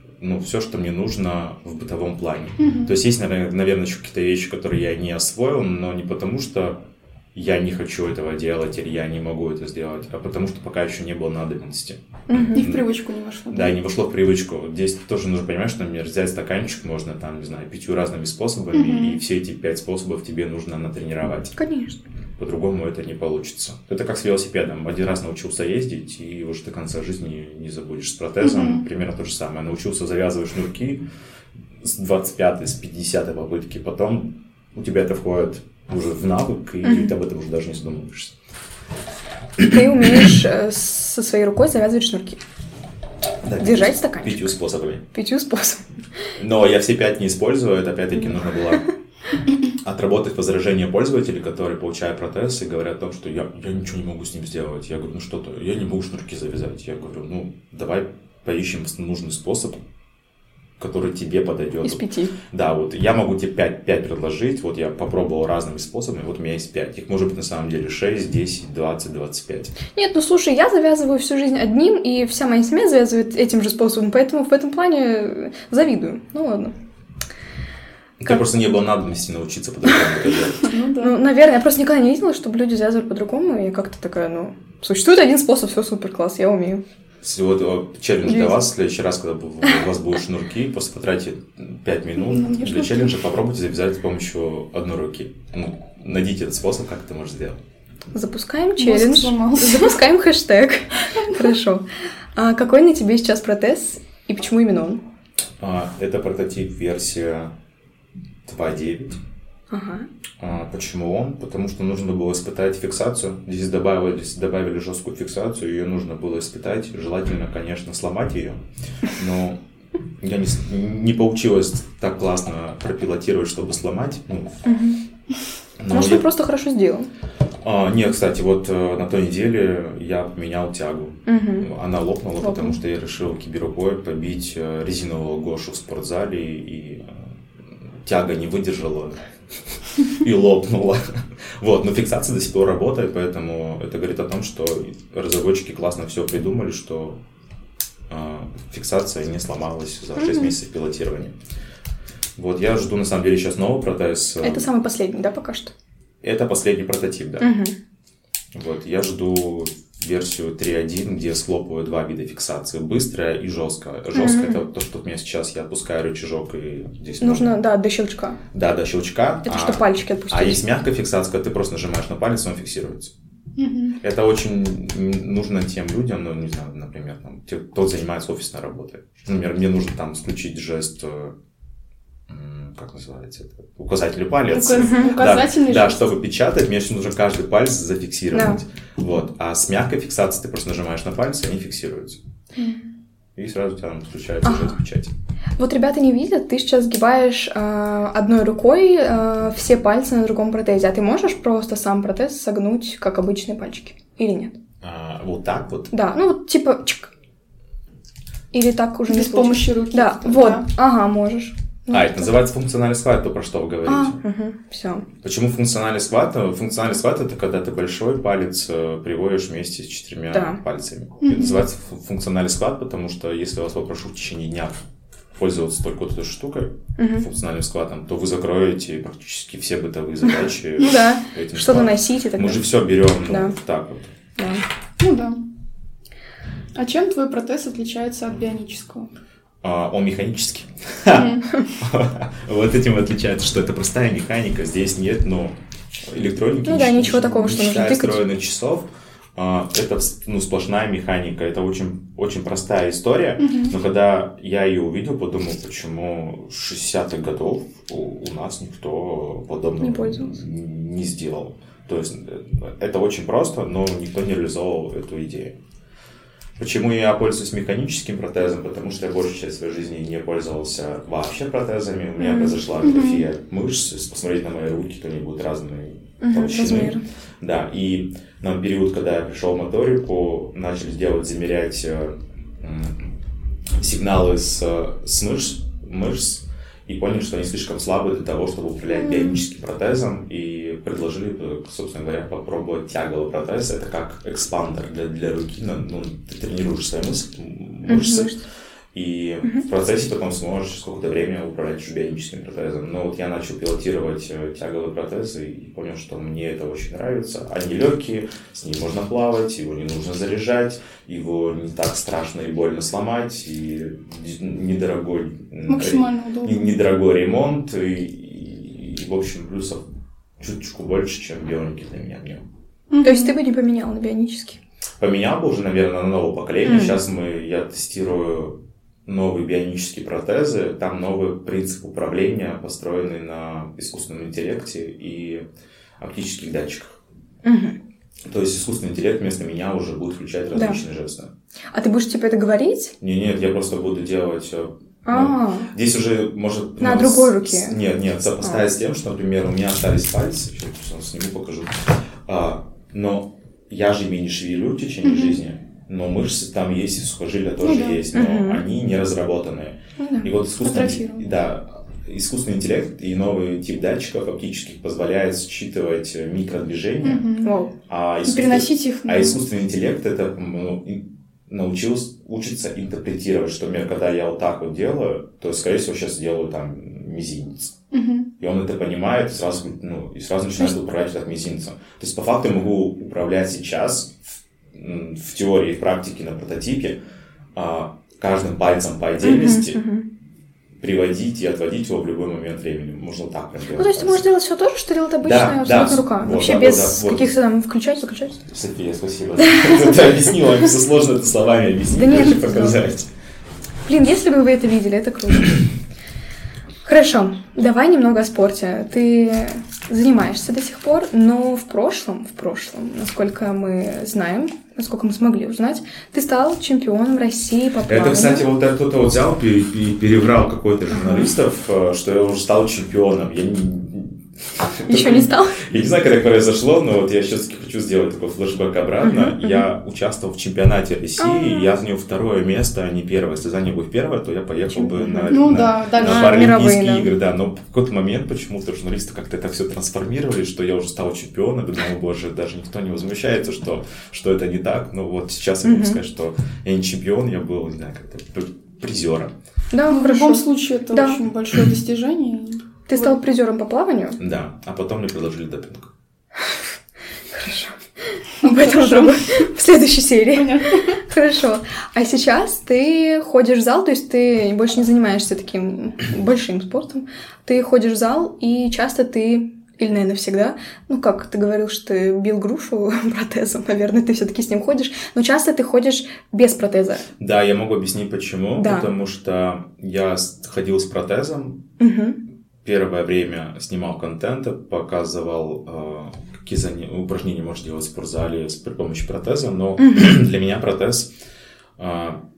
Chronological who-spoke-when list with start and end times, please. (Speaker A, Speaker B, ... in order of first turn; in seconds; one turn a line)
Speaker A: 0.2-12.9
Speaker B: 2.6-2.9
Speaker C: 12.3-12.6
Speaker B: 12.6-13.8
Speaker A: 13.5-21.6
Speaker B: 18.7-19.2
Speaker C: 21.6-22.0
Speaker A: 22.4-31.0
Speaker B: 28.4-28.9
Speaker A: 31.8-38.4
Speaker C: 36.8-37.1
Speaker A: 39.6-40.2
Speaker C: 39.6-42.4
Speaker A: 43.4-45.0
Speaker C: 43.6-44.5
Speaker C: 45.1-45.9
Speaker A: 46.4-48.8
Speaker A: 49.7-59.8
Speaker A: 60.8-69.8
Speaker C: 61.8-62.3
Speaker C: 69.9-76.7
Speaker A: 78.2-80.7
Speaker B: 80.6-81.2
Speaker C: 81.0-86.8
Speaker A: 87.2-97.6
Speaker C: 88.2-88.6
Speaker B: 92.2-93.2
Speaker C: 98.1-105.0
Speaker B: 98.8-100.0
Speaker A: 105.6-107.5
Speaker A: 108.5-109.2
Speaker C: 109.7-110.1
Speaker A: 110.4-118.6
Speaker A: 119.1-119.6
Speaker A: 120.2-124.6
Speaker C: 124.7-125.0
Speaker A: 125.8-126.3
Speaker C: 125.9-127.1
Speaker A: 127.6-137.3
Speaker C: 131.3-131.7
Speaker C: 132.4-132.8
Speaker A: 138.0-139.2
Speaker A: 139.7-147.2
Speaker A: 148.1-151.4
Speaker C: 150.2-150.5
Speaker A: 152.4-154.7
Speaker C: 154.4-155.7
Speaker A: 156.2-157.5
Speaker C: 157.4-157.8
Speaker A: 158.5-167.6
Speaker C: 164.1-164.6
Speaker C: 167.2-168.4
Speaker A: 168.5-173.1
Speaker C: 169.4-170.6
Speaker B: 173.6-174.0
Speaker A: 174.0-181.3
Speaker A: 182.3-192.2
Speaker B: 184.5-186.1
Speaker C: 184.7-185.2
Speaker C: 188.3-188.6
Speaker B: 192.6-192.9
Speaker A: 193.4-195.1
Speaker C: 194.4-194.8
Speaker C: 195.6-204.6
Speaker A: 204.8-205.9
Speaker C: 205.9-207.1
Speaker C: 208.5-212.3
Speaker B: 209.1-210.7
Speaker A: 211.9-214.2
Speaker C: 213.9-215.1
Speaker A: 215.2-224.8
Speaker C: 220.3-220.6
Speaker B: 221.2-221.6
Speaker A: 225.3-234.1
Speaker C: 227.0-227.3
Speaker C: 230.8-232.7
Speaker C: 233.3-233.5
Speaker C: 234.4-234.6
Speaker B: 235.0-235.4
Speaker B: 236.8-239.1
Speaker A: 239.6-265.6
Speaker B: 241.1-241.6
Speaker C: 246.7-248.2
Speaker B: 253.4-253.7
Speaker C: 259.8-260.3
Speaker A: 266.6-283.2
Speaker C: 272.2-272.6
Speaker B: 272.8-273.3
Speaker C: 276.2-277.0
Speaker A: 283.8-298.3
Speaker C: 289.0-289.4
Speaker C: 297.9-298.4
Speaker A: 298.9-319.8
Speaker B: 315.7-316.8
Speaker A: 320.4-322.5
Speaker B: 322.9-323.4
Speaker C: 323.0-324.6
Speaker A: 325.0-335.4
Speaker C: 326.6-327.0
Speaker A: 336.0-337.0
Speaker C: 337.4-337.8
Speaker A: 338.3-341.3
Speaker C: 340.6-340.8
Speaker C: 341.7-342.9
Speaker A: 343.0-367.3
Speaker C: 345.1-345.7
Speaker C: 346.8-347.8
Speaker B: 355.0-355.4
Speaker B: 357.6-358.0
Speaker C: 358.1-358.7
Speaker C: 360.0-360.3
Speaker B: 360.6-361.3
Speaker B: 367.0-367.5
Speaker C: 367.4-367.7
Speaker A: 367.9-377.7
Speaker B: 368.2-369.4
Speaker B: 377.9-378.3
Speaker A: 378.4-387.0
Speaker A: 387.6-389.8
Speaker C: 389.2-390.1
Speaker A: 390.8-394.3
Speaker C: 393.8-398.4
Speaker A: 395.2-397.4
Speaker A: 398.5-403.1
Speaker C: 399.5-399.9
Speaker C: 401.9-402.8
Speaker C: 403.9-405.7
Speaker C: 406.9-418.5
Speaker A: 417.9-449.3
Speaker C: 420.9-421.3
Speaker C: 424.9-425.6
Speaker C: 429.0-429.6
Speaker C: 431.2-431.7
Speaker C: 434.7-435.4
Speaker B: 435.3-436.5
Speaker C: 436.0-437.1
Speaker C: 445.6-446.0
Speaker C: 449.7-451.2
Speaker B: 449.9-453.2
Speaker C: 452.9-454.2
Speaker A: 454.2-455.9
Speaker C: 457.3-477.1
Speaker B: 458.4-459.4
Speaker B: 460.3-461.0
Speaker A: 477.2-481.6
Speaker C: 478.6-478.9
Speaker C: 481.8-482.2
Speaker A: 482.6-491.1
Speaker A: 491.8-492.2